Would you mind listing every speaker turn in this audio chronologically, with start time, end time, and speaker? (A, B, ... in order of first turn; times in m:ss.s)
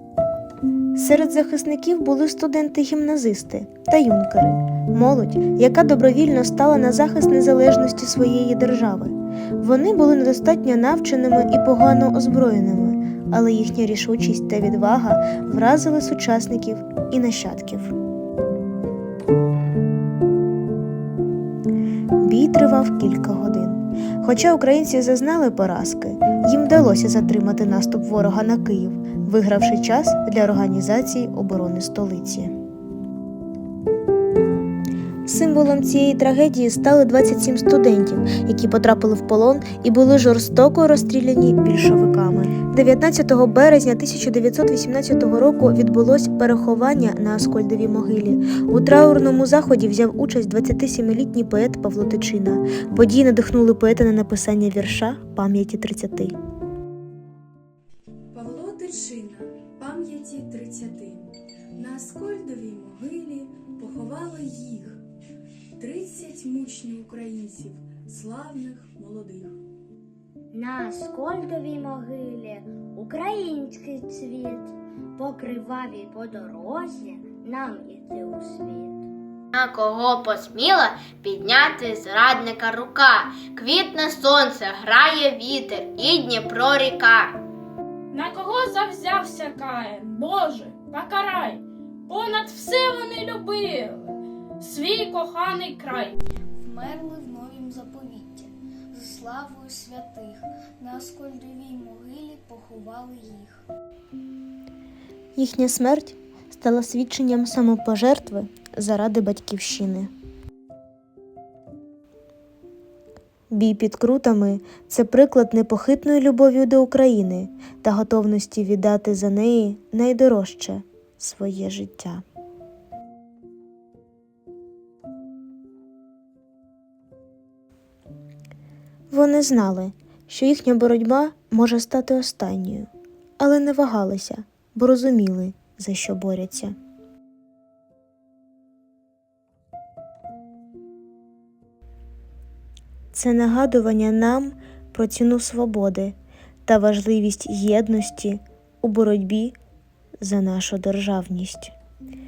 0:00.9-0:17.9 A
0:22.2-0:32.5 A
0:35.3-0:56.4 A
0:58.3-1:05.0 B
1:05.8-1:09.6 B
1:10.5-1:19.1 C
1:19.5-1:27.4 D
1:28.1-1:36.2 E
1:36.6-1:43.6 F
1:45.4-1:50.1 A
1:53.5-2:02.2 A
2:09.1-2:16.8 A
2:23.1-2:26.2 A
2:26.7-2:29.6 A
2:30.2-2:31.7 A